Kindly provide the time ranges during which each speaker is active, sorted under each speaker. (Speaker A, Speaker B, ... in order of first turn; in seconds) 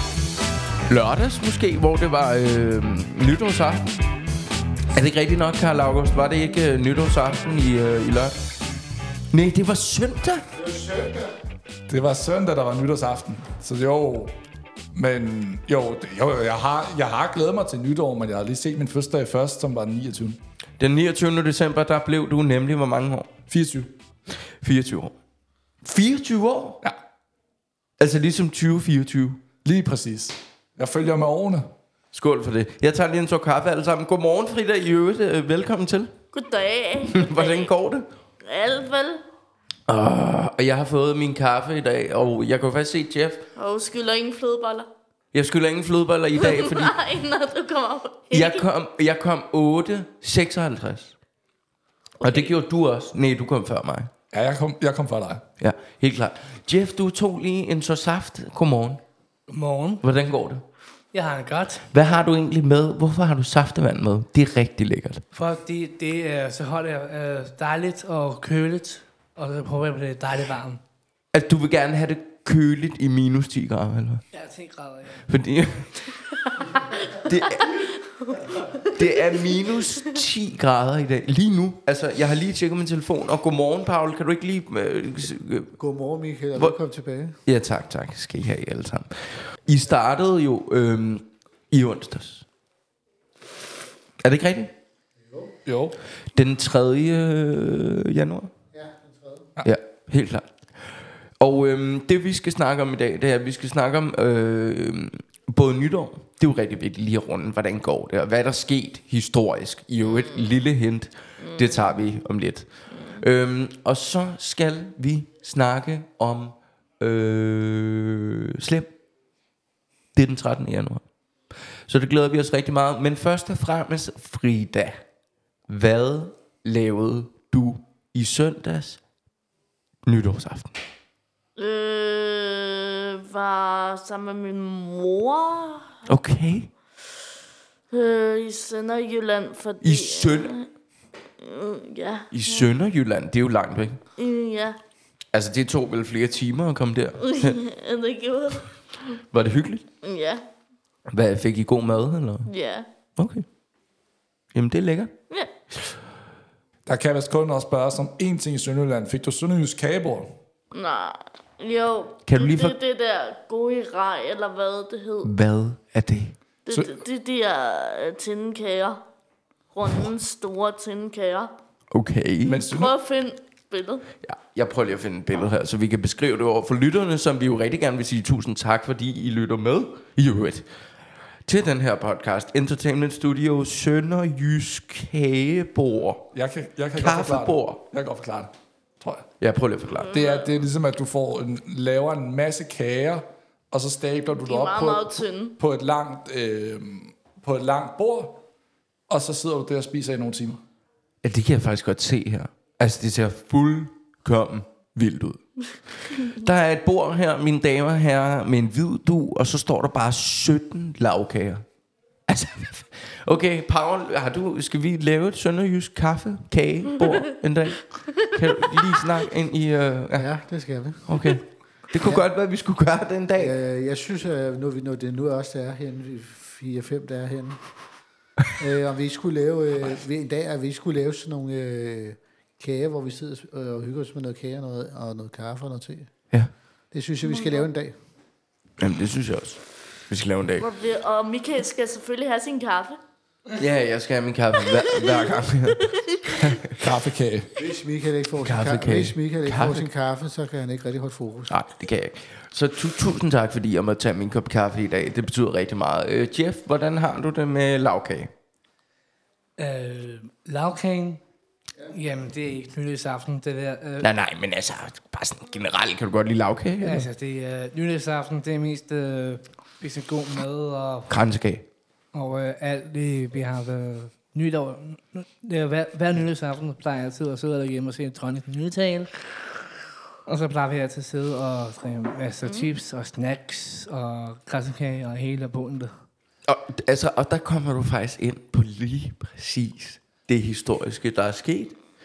Speaker A: 0.9-4.0, 4.9-8.4, 9.3-10.5, 20.8-23.3, 24.6-25.1, 25.8-26.8, 28.0-29.4, 32.1-36.1, 37.1-38.1, 39.9-43.5, 45.3-47.0, 48.3-51.1, 52.2-54.1, 55.6-59.0, 60.0-60.6, 61.9-65.2, 71.3-74.2, 75.3-76.0, 77.2-77.9, 78.9-85.8, 87.5-92.5, 94.2-94.7, 96.3-98.5, 99.6-100.5, 101.4-118.9, 120.1-121.0, 121.9-125.0, 125.7-129.0, 130.1-130.8, 136.1-136.7, 139.8-140.5, 142.3-144.0, 145.3-147.6, 149.3-149.8, 151.1-152.5, 153.2-153.4, 154.5-155.1, 162.3-162.8, 165.2-166.3, 171.9-172.6, 174.2-180.7, 181.4-186.3, 186.9-187.8, 189.4-190.1, 201.2-211.6, 212.3-220.3, 221.1-223.5, 238.8-240.7, 243.6-246.8, 248.4-249.9, 251.5-258.3, 264.0-267.1, 271.1-271.6, 286.4-291.8
Speaker B: 10.8-11.2, 11.9-14.3, 14.9-20.4, 23.5-23.9, 29.6-31.7, 54.3-55.4, 95.6-96.0, 156.8-160.4, 172.5-173.0, 186.3-189.2, 190.1-198.4, 199.1-200.6, 246.8-247.5
Speaker C: 36.3-37.7, 38.4-39.2, 43.5-44.9, 46.3-48.7, 52.2-52.6, 77.6-78.9, 110.0-110.6, 111.4-112.0, 112.9-113.2, 131.6-136.0, 137.9-140.7, 141.4-142.8, 144.1-144.8, 147.2-149.2, 150.0-150.4, 152.4-152.9, 160.7-165.4, 166.7-169.0, 169.7-171.5, 172.4-174.1, 189.9-190.7, 194.3-195.6, 237.2-237.7, 240.5-243.0, 244.7-246.6, 282.4-282.7
Speaker D: 59.5-60.0, 61.1-61.9, 65.3-70.8, 74.3-76.9, 259.6-261.2, 261.8-264.1, 266.8-271.1, 272.1-279.1, 280.2-285.9
Speaker E: 85.8-87.4, 95.3-95.5, 98.7-99.5, 220.1-221.4, 222.0-222.2, 223.3-227.6, 228.5-236.1, 236.9-237.9, 247.6-251.6